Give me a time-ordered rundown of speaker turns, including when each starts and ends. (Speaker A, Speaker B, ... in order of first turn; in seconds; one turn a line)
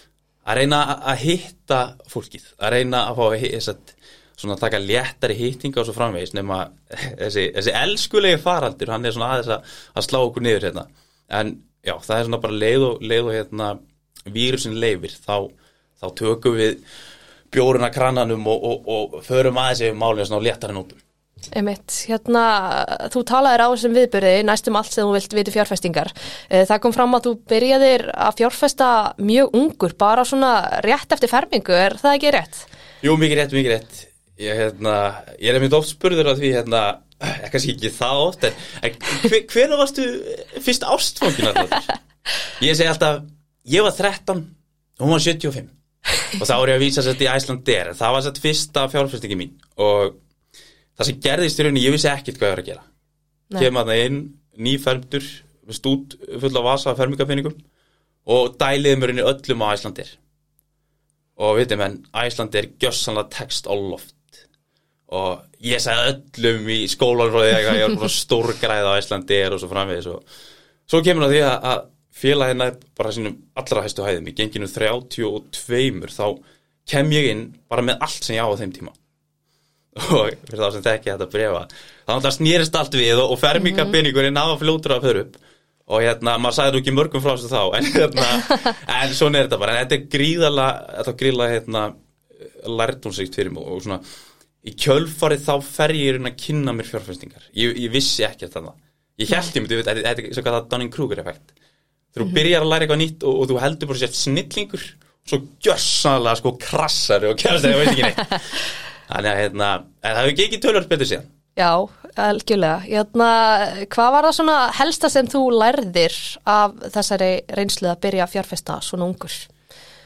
Speaker A: 0.4-16.8
Speaker A: 17.5-21.0
Speaker B: 21.5-32.7
Speaker A: 33.0-41.9
Speaker A: 42.5-45.7
Speaker A: 46.4-50.1
Speaker A: 51.0-52.8
Speaker A: 53.5-57.6
Speaker A: 58.2-60.2
Speaker A: 61.4-64.4
Speaker A: 65.1-70.2
Speaker A: 70.9-78.9
Speaker A: 79.9-94.0
Speaker B: 83.6-83.9
Speaker A: 94.6-101.5
Speaker A: 102.1-108.5
Speaker A: 109.1-111.3
Speaker B: 111.5-119.5